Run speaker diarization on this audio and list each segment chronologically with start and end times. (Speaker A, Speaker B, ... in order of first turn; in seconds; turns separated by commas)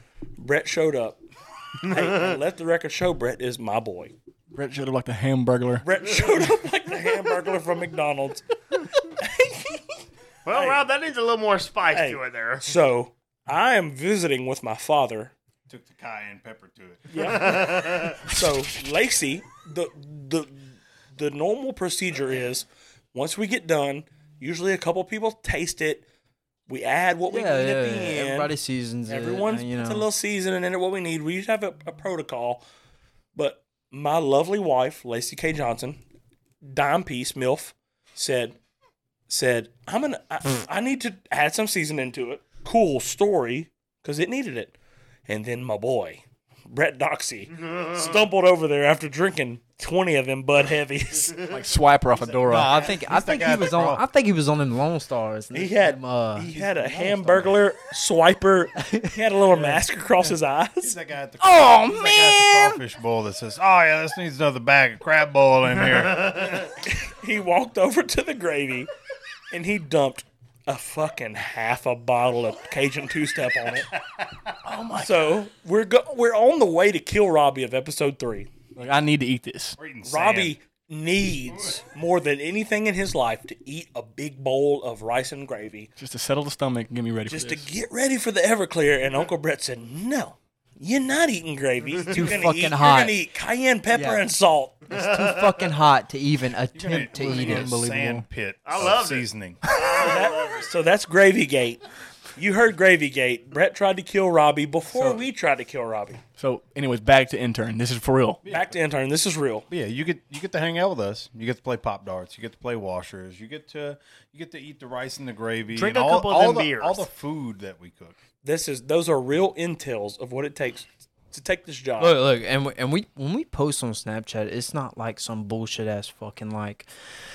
Speaker A: 0.4-1.2, Speaker A: 1.8-4.1, Speaker B: 1.8-2.4, Speaker C: 4.5-5.9, Speaker A: 5.8-8.5, Speaker A: 9.2-9.8, Speaker B: 10.4-12.7, Speaker A: 10.5-10.8, Speaker A: 11.9-15.3, Speaker D: 15.7-17.3, Speaker A: 17.1-26.0, Speaker B: 17.2-18.2, Speaker A: 26.7-28.5, Speaker E: 27.3-30.1, Speaker A: 29.1-32.6, Speaker A: 33.4-36.0, Speaker A: 36.6-38.6, Speaker A: 39.3-44.8, Speaker A: 45.3-51.5, Speaker B: 47.5-48.2, Speaker B: 51.2-51.5, Speaker C: 51.5-52.8, Speaker E: 52.5-56.5, Speaker D: 52.9-54.0, Speaker A: 55.5-61.0, Speaker D: 56.5-57.5, Speaker E: 58.9-59.1, Speaker D: 59.5-66.7, Speaker C: 61.4-62.8, Speaker A: 66.8-68.9, Speaker A: 69.5-73.9, Speaker C: 74.6-75.4, Speaker A: 75.0-78.5, Speaker C: 78.8-79.8, Speaker D: 79.8-80.6, Speaker A: 80.0-85.9, Speaker D: 81.5-81.8, Speaker C: 86.0-87.7, Speaker A: 87.3-94.8, Speaker E: 92.1-93.2, Speaker E: 93.9-94.2, Speaker B: 94.9-95.5, Speaker E: 94.9-97.8, Speaker D: 96.7-99.7, Speaker C: 96.9-98.3, Speaker B: 98.6-100.7, Speaker A: 99.9-101.8, Speaker A: 102.4-106.2, Speaker C: 104.9-105.2, Speaker C: 106.4-108.4, Speaker D: 108.4-108.8, Speaker A: 108.5-109.7, Speaker D: 109.7-118.2, Speaker B: 115.7-117.1, Speaker A: 118.4-122.2, Speaker E: 122.0-126.9